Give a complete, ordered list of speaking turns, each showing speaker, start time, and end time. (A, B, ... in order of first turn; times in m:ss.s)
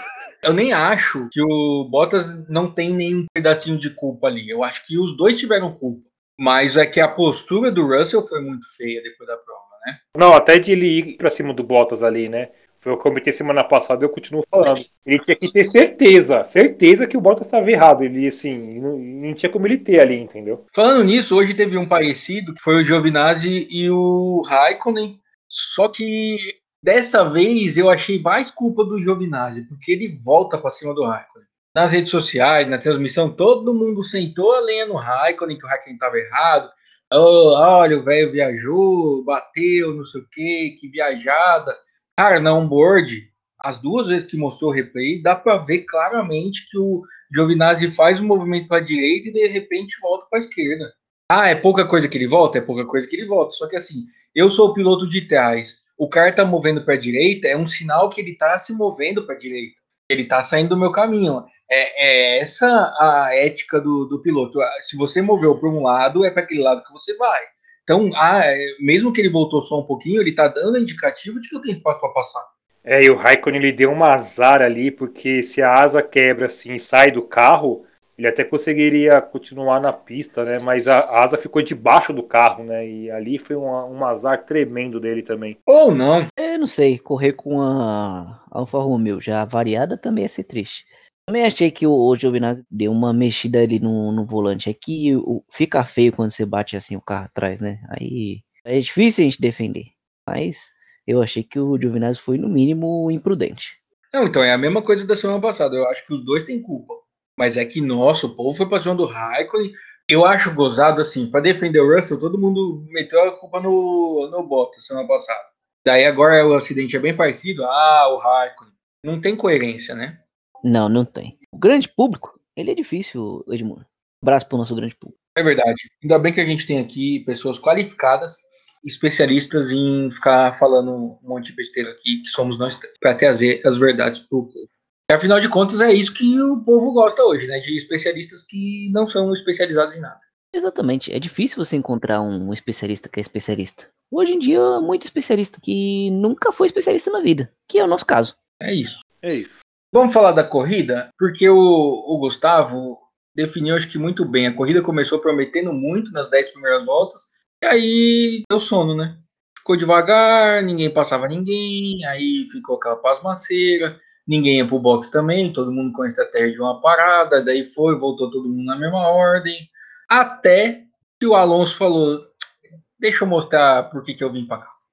0:00.4-0:10.0 A
0:10.1-0:20.6 B
0:20.7-1:12.5 A
1:12.8-1:25.6 B
1:25.7-1:26.3 A
1:26.4-1:43.8 C
1:44.1-2:00.2 A
2:00.6-2:05.1 C
2:05.4-2:20.2 A
2:20.5-2:28.3 C
2:28.6-2:29.0 A
2:29.2-2:29.6 B
2:29.9-2:52.3 A
2:53.0-2:54.7 A